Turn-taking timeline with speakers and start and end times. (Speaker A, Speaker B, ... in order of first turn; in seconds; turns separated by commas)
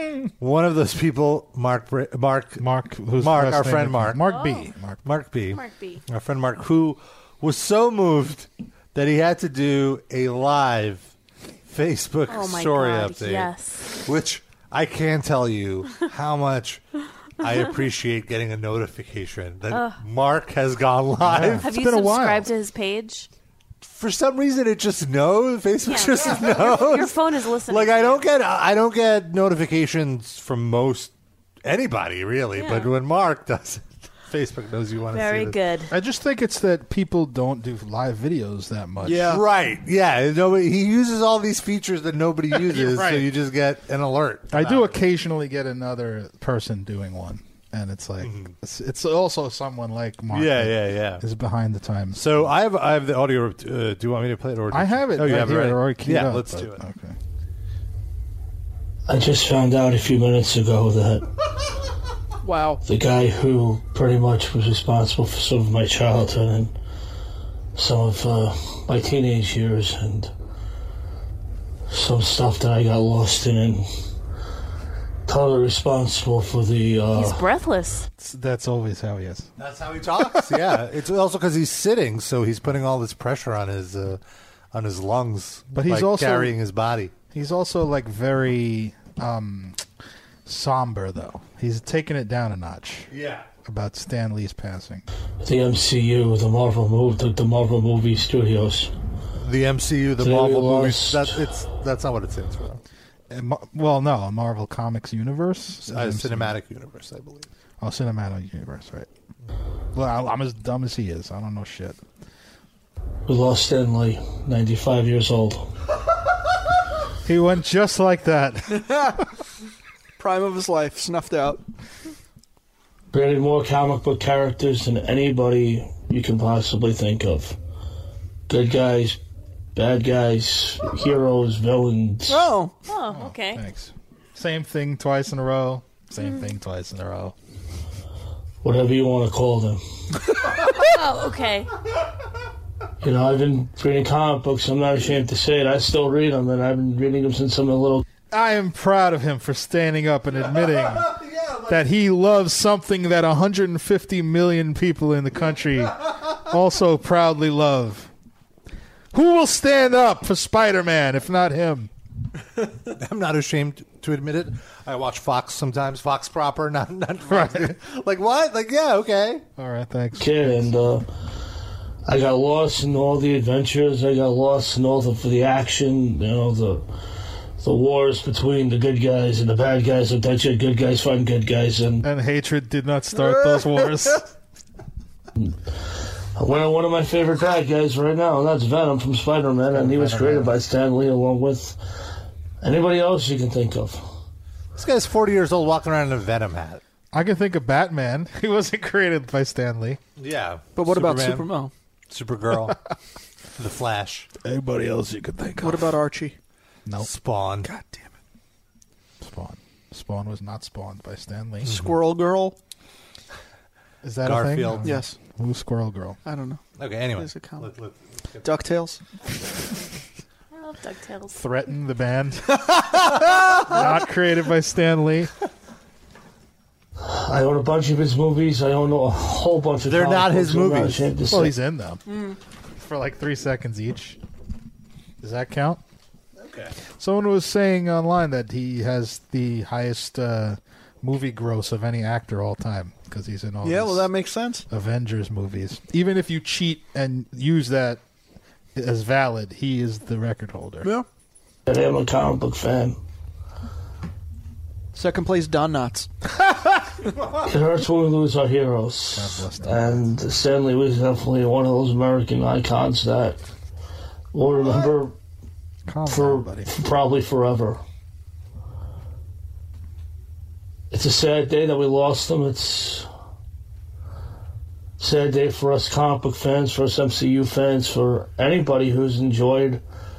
Speaker A: 0.4-2.6, Speaker B: 2.6-5.0, Speaker A: 3.2-4.2, Speaker C: 4.2-4.7, Speaker A: 5.0-11.1, Speaker C: 5.5-6.0, Speaker A: 11.7-16.8, Speaker C: 12.3-13.9, Speaker A: 17.4-21.7, Speaker C: 19.7-20.0, Speaker B: 21.2-22.5, Speaker C: 21.6-23.3, Speaker A: 23.8-31.1, Speaker C: 25.8-28.3, Speaker A: 31.6-35.6, Speaker C: 32.5-32.9, Speaker C: 35.1-35.9, Speaker B: 35.9-39.4, Speaker D: 39.0-39.4, Speaker A: 39.2-45.0, Speaker B: 42.5-43.3, Speaker B: 44.5-52.3, Speaker A: 48.2-48.5, Speaker A: 50.3-51.2, Speaker A: 52.1-56.8, Speaker B: 54.7-57.2, Speaker E: 59.1-61.3, Speaker D: 62.4-62.8, Speaker E: 62.9-66.7, Speaker E: 67.8-70.3, Speaker E: 71.9-73.9, Speaker E: 75.3-77.4, Speaker C: 77.1-78.1, Speaker B: 78.2-79.5, Speaker A: 79.6-84.2, Speaker A: 84.7-87.1, Speaker B: 85.7-86.5, Speaker B: 87.3-89.8, Speaker B: 90.5-93.1, Speaker A: 93.1-93.5, Speaker B: 93.7-95.0, Speaker E: 95.4-98.9, Speaker A: 99.4-102.8, Speaker E: 100.2-101.4, Speaker B: 103.3-106.6, Speaker A: 105.9-107.5, Speaker B: 107.8-109.1, Speaker B: 110.0-112.0, Speaker E: 113.3-115.7, Speaker B: 117.2-118.9, Speaker D: 118.7-119.2, Speaker D: 120.2-121.6, Speaker E: 123.1-127.6, Speaker E: 128.5-129.2, Speaker E: 129.8-132.5, Speaker D: 132.3-132.7, Speaker C: 132.9-133.6, Speaker B: 133.1-137.3, Speaker E: 138.6-139.8, Speaker C: 140.6-141.7, Speaker E: 143.0-148.0, Speaker B: 148.3-151.2, Speaker A: 150.4-151.8, Speaker B: 151.7-158.1, Speaker B: 159.1-161.9, Speaker A: 162.9-169.4, Speaker B: 167.3-167.8, Speaker B: 169.6-170.7, Speaker E: 170.2-171.1, Speaker E: 172.1-176.9, Speaker E: 177.6-182.1, Speaker B: 182.0-184.3, Speaker D: 183.2-183.7, Speaker E: 185.4-185.8, Speaker E: 186.3-191.8, Speaker B: 189.7-190.6, Speaker E: 192.6-194.0, Speaker A: 194.8-196.8, Speaker B: 197.1-200.0, Speaker A: 200.2-201.5, Speaker D: 200.8-201.7, Speaker A: 202.1-202.8, Speaker A: 203.6-204.3, Speaker B: 204.4-205.9, Speaker D: 205.6-206.4, Speaker A: 207.0-207.7, Speaker D: 207.6-208.1, Speaker B: 209.2-211.8, Speaker D: 211.7-212.6, Speaker B: 214.0-216.2, Speaker A: 214.2-215.0, Speaker D: 214.8-215.2, Speaker D: 216.2-216.6, Speaker A: 216.8-218.5, Speaker D: 217.1-217.7, Speaker D: 218.4-219.0, Speaker C: 220.5-221.4, Speaker B: 221.3-222.6, Speaker B: 223.6-225.3, Speaker E: 227.0-231.5, Speaker A: 229.8-231.1, Speaker B: 231.3-232.0, Speaker D: 232.1-232.4, Speaker B: 232.8-234.2, Speaker B: 235.2-235.8, Speaker A: 236.4-236.8, Speaker B: 237.0-244.1, Speaker D: 243.6-244.7, Speaker B: 244.7-248.0, Speaker B: 248.8-250.9, Speaker E: 251.7-253.0, Speaker D: 254.9-256.1, Speaker E: 257.4-263.4, Speaker B: 259.1-260.1, Speaker E: 264.3-265.1, Speaker B: 265.9-266.7, Speaker E: 266.1-267.8, Speaker E: 270.9-273.1, Speaker E: 275.0-279.8